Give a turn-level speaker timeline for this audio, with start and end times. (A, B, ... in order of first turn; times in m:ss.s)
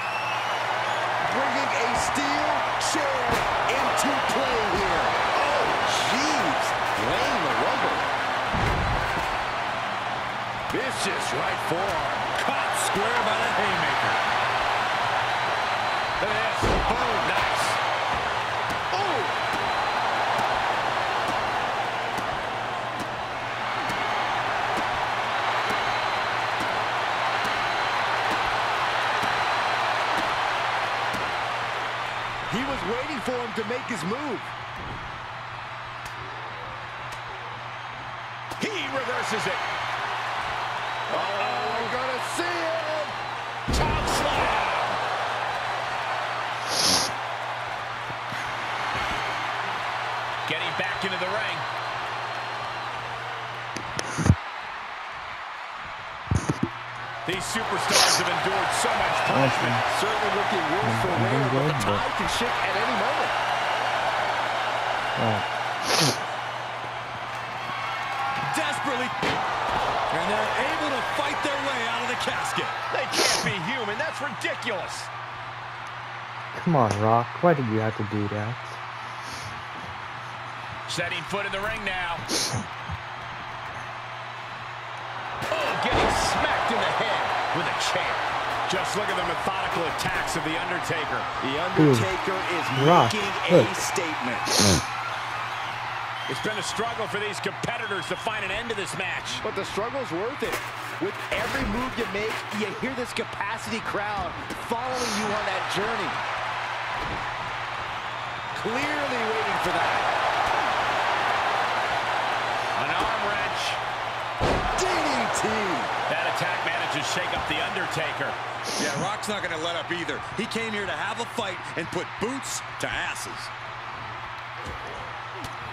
0:01.2-0:08.1 A
0:10.7-0:12.3 A
0:12.3-0:14.2 B
0:16.2-0:17.8 C
0:18.9-0:19.3 C
0:32.5-0:34.5 A
0:38.6-0:39.6 C
0:41.1-0:42.0 C
0:41.1-0:43.1 A
0:43.7-0:45.0 C
0:50.4-0:51.6 C
0:57.2-0:59.8 C
0:59.3-0:59.8 D
0:59.8-1:03.3 A
1:00.8-1:02.0 D
1:05.2-1:05.4 D
1:08.5-1:09.2 B
1:10.1-1:12.8 B
1:12.9-1:15.1 C
1:16.5-1:18.8 D
1:20.8-1:22.2 C
1:25.5-1:31.3 C
1:31.4-1:34.7 A
1:31.8-1:32.1 D
1:32.7-1:33.8 D
1:36.3-1:39.4 C
1:39.4-1:46.2 A
1:48.5-1:50.1 A
1:52.8-1:53.8 C
1:54.8-1:55.9 A
1:56.1-1:58.4 C
1:58.8-2:03.5 B